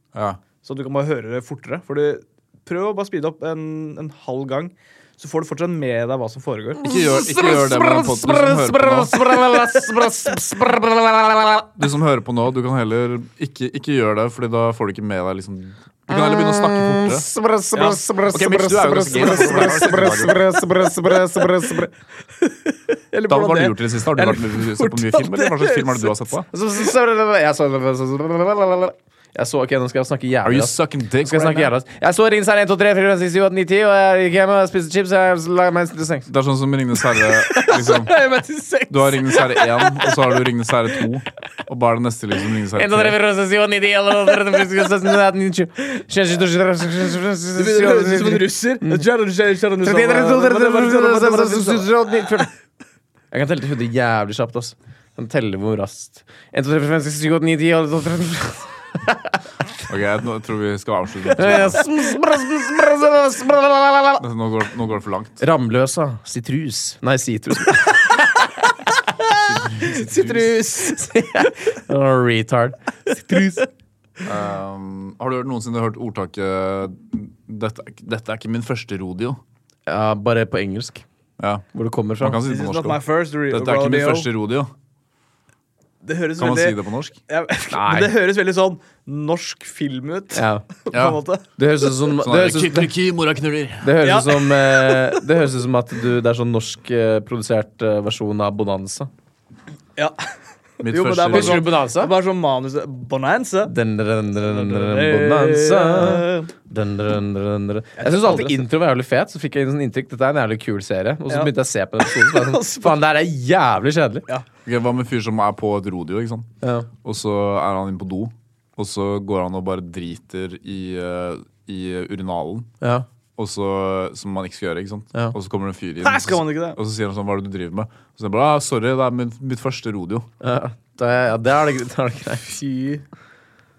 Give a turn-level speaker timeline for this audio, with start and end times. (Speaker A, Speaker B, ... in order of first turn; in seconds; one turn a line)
Speaker A: 0.1-0.4
Speaker B: 0.6-6.8
Speaker A: 6.8-9.1
Speaker C: 6.8-11.7
Speaker A: 11.8-20.4
Speaker C: 16.1-21.9
Speaker B: 22.4-26.3
Speaker A: 23.3-26.4
Speaker C: 26.5-36.3
Speaker A: 30.4-31.7
Speaker A: 36.3-38.1
Speaker B: 37.5-40.2
Speaker A: 38.9-43.2
Speaker C: 42.7-49.0
Speaker B: 47.6-51.9
Speaker C: 49.8-52.5
Speaker C: 53.3-59.4
Speaker A: 59.9-61.8
Speaker C: 61.3-64.2
Speaker A: 64.2-65.4
Speaker C: 65.4-68.5
Speaker B: 69.2-71.5
Speaker A: 69.3-70.5
Speaker C: 70.8-73.6
Speaker B: 73.1-73.6
Speaker A: 74.2-79.4
Speaker C: 79.9-81.0
Speaker A: 81.4-81.6
Speaker C: 81.7-82.4
Speaker A: 82.2-84.7
Speaker B: 82.5-84.3
Speaker B: 86.0-91.9
Speaker A: 86.4-87.2
Speaker C: 87.7-88.1
Speaker C: 90.3-90.6
Speaker A: 90.9-91.2
Speaker C: 91.6-92.9
Speaker A: 92.2-94.0
Speaker C: 93.8-99.1
Speaker B: 94.0-95.2
Speaker B: 100.8-103.7
Speaker A: 100.8-101.7
Speaker C: 101.3-102.1
Speaker C: 103.7-114.3
Speaker B: 104.5-106.5
Speaker B: 108.0-108.7
Speaker B: 111.3-113.0
Speaker A: 114.7-116.5
Speaker C: 116.6-116.9
Speaker A: 117.0-122.7
Speaker C: 122.8-123.1
Speaker A: 123.4-130.3
Speaker B: 126.0-126.8
Speaker C: 130.4-132.6
Speaker B: 132.4-133.0